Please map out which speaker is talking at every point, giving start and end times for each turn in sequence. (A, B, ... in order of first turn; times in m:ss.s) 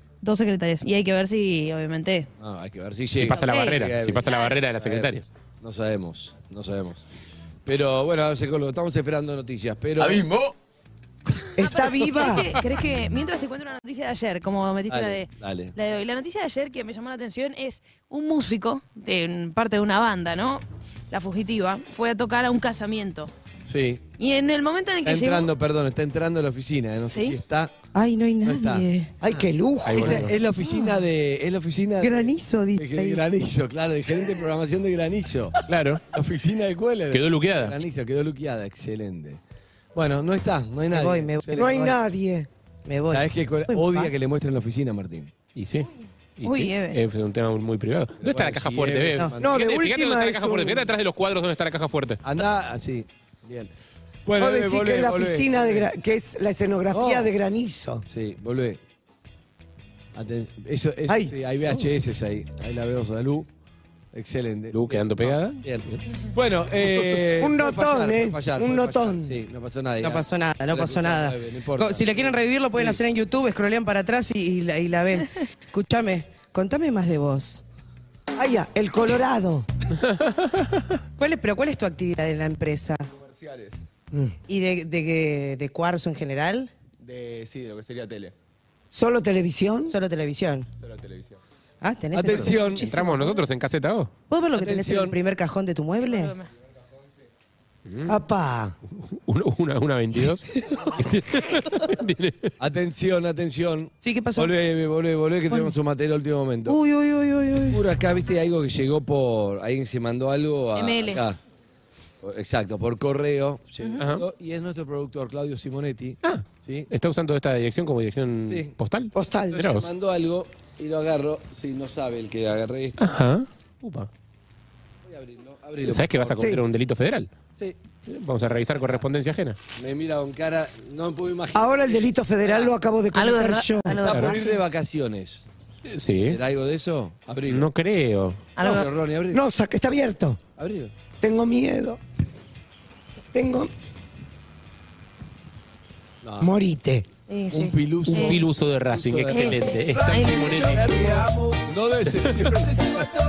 0:00.2-0:02.3 A
0:02.4-0:07.0 B
0:03.1-0:05.3 C
0:03.3-0:04.5 A
0:07.6-0:10.5 B
0:11.6-0:12.5 D
0:11.6-0:23.3 A
0:14.9-0:15.7 B
0:23.6-0:24.0 B
0:24.2-0:25.5 A
0:25.0-0:27.7 B
0:27.1-0:27.4 A
0:27.9-0:29.1 E
0:28.4-0:35.6 B
0:29.2-0:30.3 D
0:29.8-0:30.3 C
0:30.7-0:31.0 E
0:32.0-0:33.2 E
0:35.7-0:36.0 C
0:36.1-0:39.4 B
0:37.1-0:37.8 C
0:39.9-0:41.9 B
0:40.9-0:42.0 E
0:41.5-0:42.5 D
0:42.8-0:44.1 E
0:43.1-0:45.3 B
0:45.5-0:52.2 C
0:46.4-0:47.0 A
0:48.2-0:49.6 B
0:49.4-0:50.9 D
0:52.2-0:53.7 B
0:54.2-0:55.9 B
0:54.4-0:58.0 D
0:56.9-0:57.3 B
0:58.1-0:58.8 B
1:00.1-1:03.5 B
1:01.1-1:01.3 D
1:04.1-1:13.0 B
1:04.7-1:06.0 C
1:07.4-1:09.4 D
1:10.0-1:17.6 E
1:18.4-1:19.7 D
1:20.0-1:20.8 C
1:21.2-1:23.0 E
1:23.2-1:23.8 F
1:24.5-1:26.7 E
1:27.0-1:28.3 F
1:28.9-1:29.9 D
1:29.9-1:30.7 E
1:30.8-1:31.4 F
1:31.8-1:33.4 E
1:32.1-1:32.9 B
1:32.3-1:34.1 C
1:34.3-1:36.3 E
1:34.5-1:35.2 B
1:36.0-1:36.4 A
1:37.9-1:38.1 C
1:38.1-1:38.7 D
1:39.1-1:42.5 C
1:42.6-1:46.8 B
1:44.0-1:44.6 E
1:46.6-1:47.8 E
1:47.7-1:51.4 B
1:50.7-1:51.2 A
1:52.2-1:56.9 B
1:54.0-1:54.2 C
1:56.2-1:59.9 C
1:58.5-1:58.7 B
1:59.1-1:59.6 D
1:59.5-2:03.0 B
2:03.0-2:04.1 C
2:05.0-2:06.5 B
2:05.8-2:07.3 C
2:06.4-2:06.6 D
2:08.1-2:09.6 C
2:08.7-2:09.0 B
2:09.7-2:12.7 B
2:11.5-2:14.1 D
2:13.1-2:14.6 A
2:14.0-2:15.5 B
2:14.1-2:14.4 C
2:15.9-2:16.4 C
2:16.2-2:17.7 B
2:17.5-2:18.5 C
2:18.6-2:18.9 A
2:18.6-2:19.4 B
2:19.3-2:20.4 D
2:20.6-2:20.9 B
2:21.2-2:22.0 D
2:23.3-2:23.7 D
2:26.2-2:26.5 B
2:26.4-2:27.0 D
2:27.3-2:28.4 A
2:27.5-2:33.1 B
2:28.1-2:30.9 C
2:29.3-2:30.6 A
2:32.0-2:33.0 C